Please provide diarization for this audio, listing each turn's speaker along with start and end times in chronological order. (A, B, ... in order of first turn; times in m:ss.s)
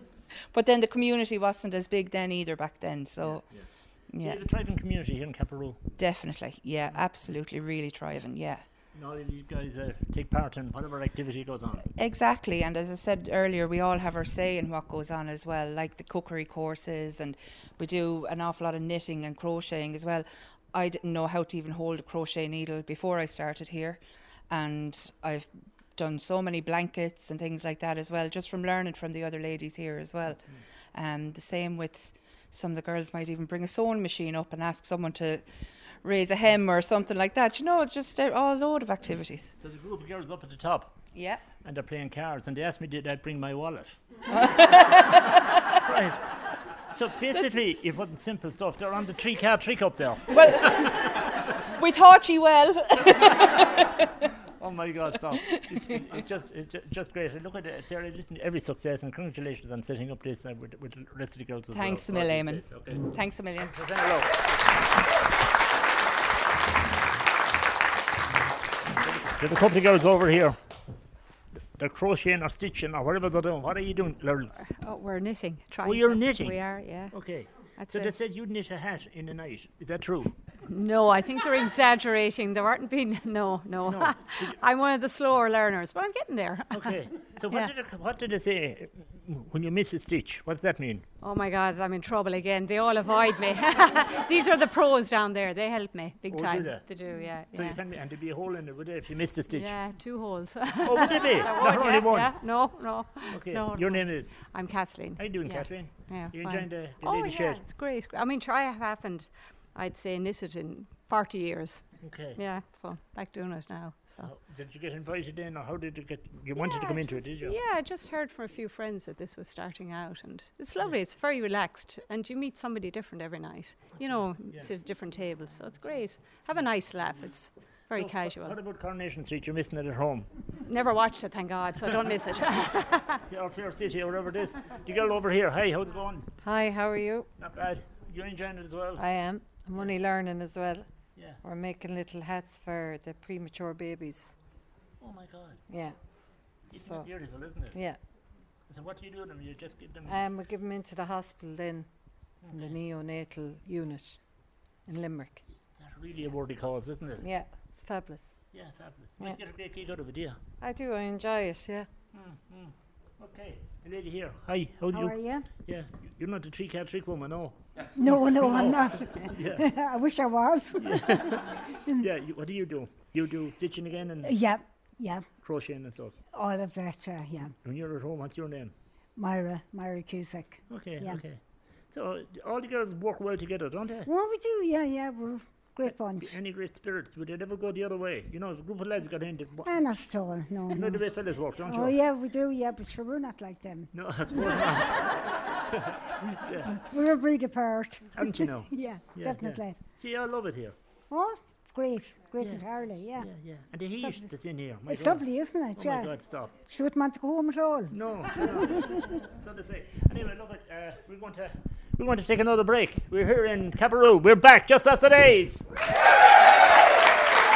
0:00.5-0:04.4 A
0:03.2-0:05.9 B
0:06.0-0:08.7 A
0:08.9-0:11.9 B
0:12.0-0:39.5 A
0:39.6-0:44.1 B
0:41.1-0:41.4 A
0:44.3-0:45.3 A
0:45.8-0:51.1 B
0:50.3-0:54.0 A
0:54.6-1:04.4 B
1:01.7-1:03.8 A
1:08.9-1:11.0 B
1:11.8-1:14.6 B
1:14.5-1:18.2 C
1:15.8-1:20.4 B
1:20.7-1:27.7 C
1:23.8-1:24.6 B
1:26.7-1:31.1 B
1:31.2-1:37.8 C
1:36.3-1:40.3 B
1:39.5-1:54.4 C
1:40.8-1:47.6 B
1:52.0-1:52.6 B
1:54.2-1:57.6 B
1:56.6-2:08.6 C
2:04.0-2:04.7 B
2:07.9-2:10.5 B
2:10.6-2:13.2 C
2:13.2-2:16.4 B
2:16.4-2:17.3 D
2:17.4-2:19.0 B
2:19.0-2:24.5 D
2:19.6-2:19.9 B
2:21.1-2:21.4 B
2:25.0-2:30.2 B
2:25.7-2:28.0 D
2:30.1-2:35.5 D
2:32.4-2:32.8 B
2:35.5-2:37.2 B
2:37.2-2:39.4 D
2:38.5-2:40.4 B
2:40.6-2:41.9 D
2:42.1-2:49.8 B
2:44.9-2:45.5 E
2:47.9-2:51.5 E
2:50.8-2:56.2 B
2:54.2-2:57.6 E
2:57.6-2:58.8 B
2:59.1-3:01.3 E
3:00.7-3:04.1 B
3:04.1-3:06.4 E
3:05.9-3:12.0 B
3:09.6-3:14.9 E
3:13.9-3:15.4 B
3:16.4-3:16.7 B
3:16.7-3:19.8 E
3:18.1-3:20.8 B
3:21.1-3:29.0 E
3:22.4-3:26.6 B
3:27.9-3:35.6 B